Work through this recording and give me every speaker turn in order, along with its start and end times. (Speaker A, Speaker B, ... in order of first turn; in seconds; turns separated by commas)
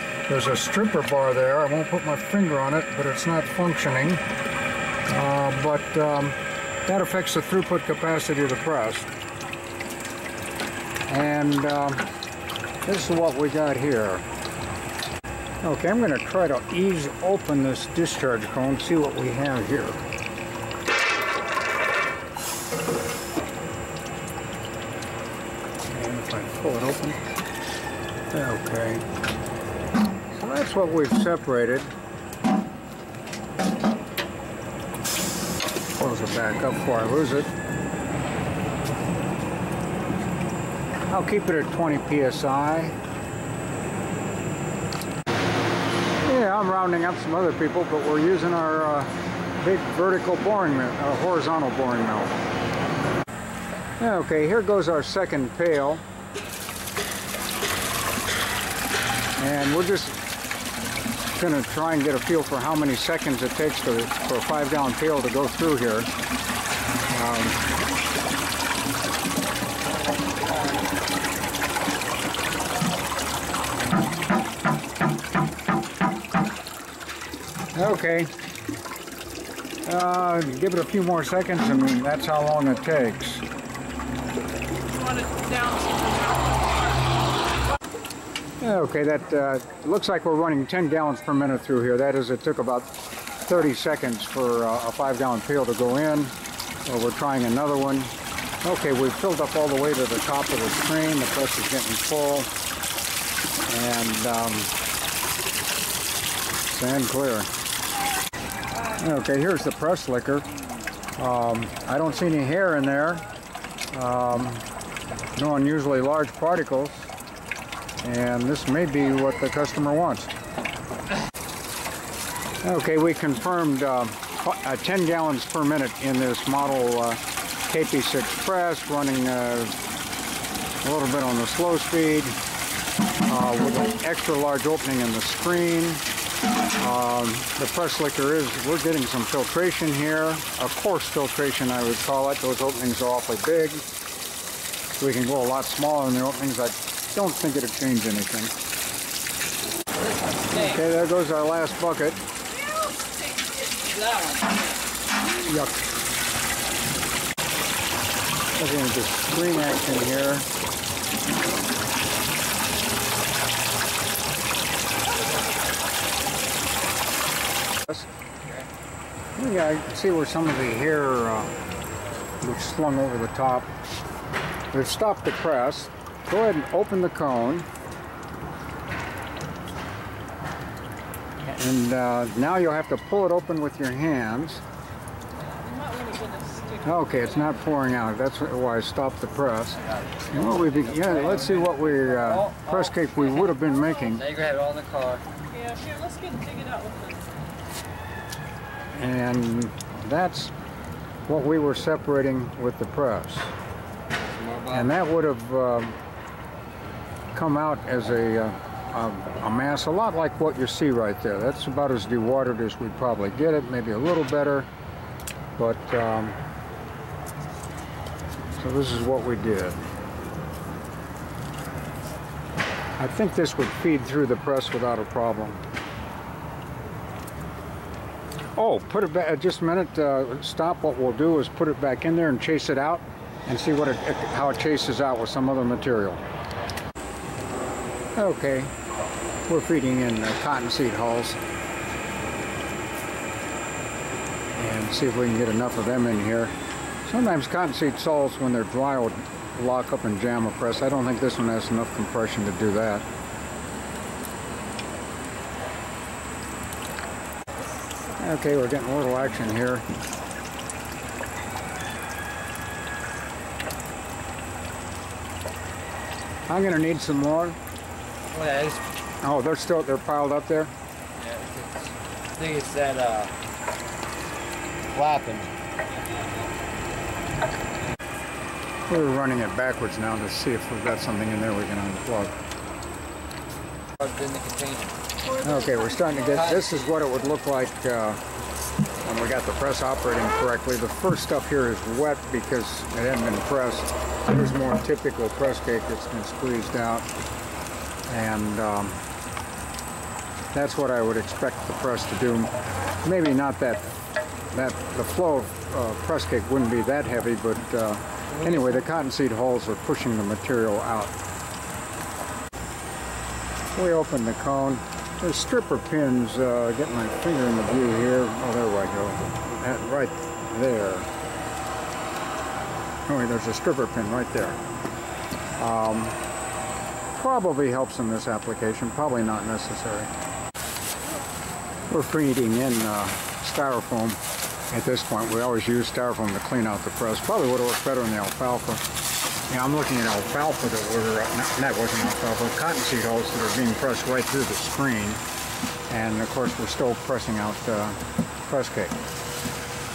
Speaker A: 0.3-4.2, Speaker A: 5.1-9.1, Speaker A: 11.1-12.1, Speaker A: 12.8-14.2, Speaker A: 15.6-20.0, Speaker A: 25.9-27.2, Speaker A: 28.3-29.1, Speaker A: 30.3-31.9, Speaker A: 36.0-37.5, Speaker A: 41.1-43.0, Speaker A: 46.2-52.4, Speaker A: 54.0-56.0, Speaker A: 59.4-60.2, Speaker A: 61.4-66.1, Speaker A: 67.1-67.6, Speaker A: 77.7-78.3, Speaker A: 79.8-83.4, Speaker B: 84.9-87.0, Speaker A: 88.6-92.9, Speaker A: 93.5-96.3, Speaker A: 96.9-98.1, Speaker A: 98.6-102.5, Speaker A: 103.7-104.7, Speaker A: 106.7-107.5, Speaker A: 108.9-110.5, Speaker A: 111.2-113.3, Speaker A: 113.9-114.7, Speaker A: 115.4-117.1, Speaker A: 118.0-120.3, Speaker A: 122.6-129.8, Speaker A: 130.8-132.4, Speaker A: 133.3-136.0, Speaker A: 136.8-143.8, Speaker A: 145.0-148.5, Speaker A: 150.5-152.2, Speaker C: 153.7-154.6, Speaker A: 155.3-155.8, Speaker A: 158.6-160.5, Speaker A: 169.4-171.5, Speaker A: 172.4-173.7, Speaker A: 174.7-177.7, Speaker A: 181.4-184.6, Speaker B: 185.7-186.8, Speaker A: 186.8-189.8, Speaker C: 190.1-193.5, Speaker A: 190.3-194.3, Speaker C: 194.1-195.2, Speaker B: 195.5-197.3, Speaker A: 198.9-200.5, Speaker A: 201.3-203.5, Speaker C: 204.4-204.8, Speaker A: 204.7-206.0, Speaker A: 207.3-214.7, Speaker A: 215.6-216.4, Speaker A: 218.6-219.8, Speaker A: 223.0-225.6, Speaker A: 228.6-236.2, Speaker A: 238.2-238.7, Speaker A: 239.5-241.4, Speaker A: 244.6-246.5, Speaker A: 247.1-253.1, Speaker A: 258.1-259.9, Speaker A: 266.5-267.6, Speaker C: 268.3-268.8, Speaker A: 269.2-270.7, Speaker C: 271.2-273.3, Speaker C: 274.9-275.5, Speaker A: 278.9-282.3, Speaker C: 284.0-285.0, Speaker A: 285.4-288.2, Speaker C: 286.3-286.9, Speaker A: 289.0-297.1, Speaker A: 298.1-299.0, Speaker A: 300.5-302.5, Speaker A: 303.0-303.9, Speaker A: 304.5-311.1, Speaker A: 313.7-321.1, Speaker A: 323.1-324.6, Speaker A: 325.6-326.2, Speaker A: 327.1-330.1, Speaker A: 331.9-338.8, Speaker A: 339.5-345.2, Speaker A: 345.9-349.0